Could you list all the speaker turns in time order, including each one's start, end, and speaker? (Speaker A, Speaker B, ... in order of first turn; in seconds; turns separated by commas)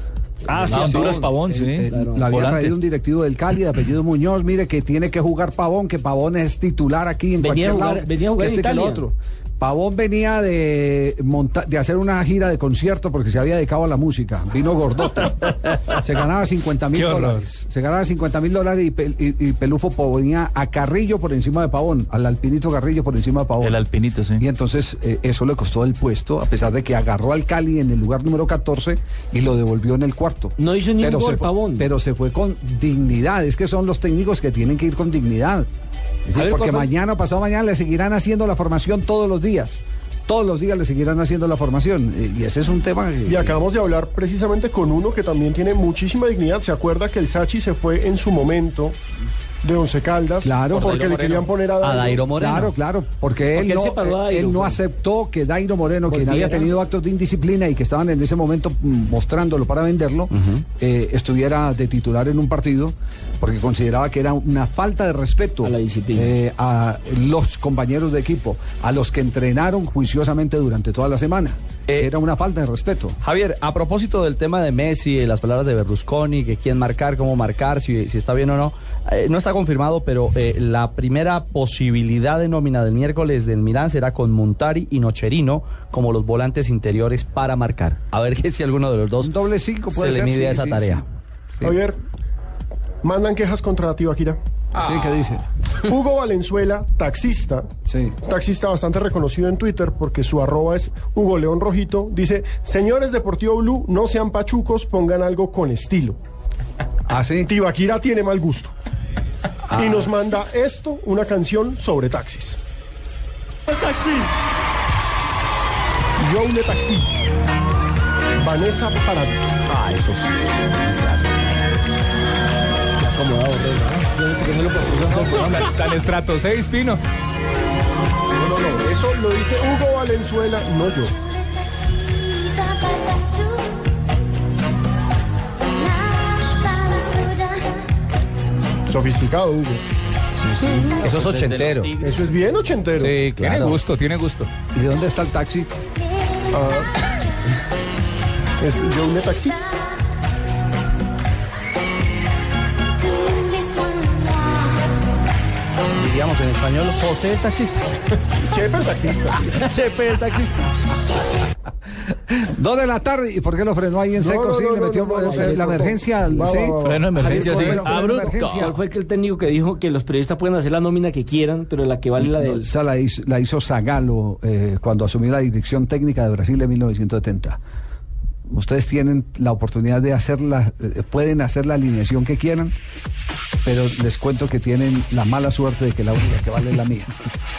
Speaker A: 0.5-1.4, Speaker B: 0.5-2.8, Speaker C: 0.6-23.8, Speaker A: 1.9-2.5, Speaker A: 7.4-9.0, Speaker B: 16.9-17.4, Speaker B: 23.6-24.4, Speaker C: 24.4-35.7, Speaker A: 30.6-31.9, Speaker C: 36.3-43.6, Speaker A: 36.3-36.9, Speaker D: 43.2-49.0, Speaker D: 49.6-52.3, Speaker C: 50.4-51.2, Speaker E: 50.7-52.7, Speaker C: 52.3-73.2, Speaker A: 53.5-54.8, Speaker A: 56.1-56.7, Speaker E: 60.3-60.6, Speaker A: 65.6-66.3, Speaker E: 73.2-89.3, Speaker C: 89.2-91.0, Speaker E: 89.9-91.0, Speaker D: 91.6-92.0, Speaker D: 93.0-94.4, Speaker C: 94.8-95.4, Speaker D: 95.8-97.7, Speaker C: 97.8-98.2, Speaker D: 98.2-106.2, Speaker C: 107.1-107.5, Speaker D: 107.5-108.7, Speaker C: 109.7-110.1, Speaker D: 109.7-112.6, Speaker D: 116.2-117.1, Speaker D: 118.4-120.2, Speaker A: 123.0-125.7, Speaker F: 125.3-127.0, Speaker D: 128.3-131.1, Speaker D: 138.9-139.8, Speaker C: 140.3-141.8, Speaker E: 140.8-142.2, Speaker D: 142.0-143.2, Speaker E: 143.0-143.8, Speaker F: 143.2-144.5, Speaker C: 144.7-145.7, Speaker D: 146.5-146.9, Speaker D: 148.6-149.6, Speaker E: 155.9-157.9, Speaker D: 158.5-159.5, Speaker E: 159.5-160.7, Speaker C: 162.3-168.8, Speaker D: 164.2-167.8, Speaker A: 165.2-166.5, Speaker B: 166.8-168.7, Speaker A: 167.3-172.7, Speaker C: 172.2-177.6, Speaker C: 178.5-182.7, Speaker C: 183.6-187.1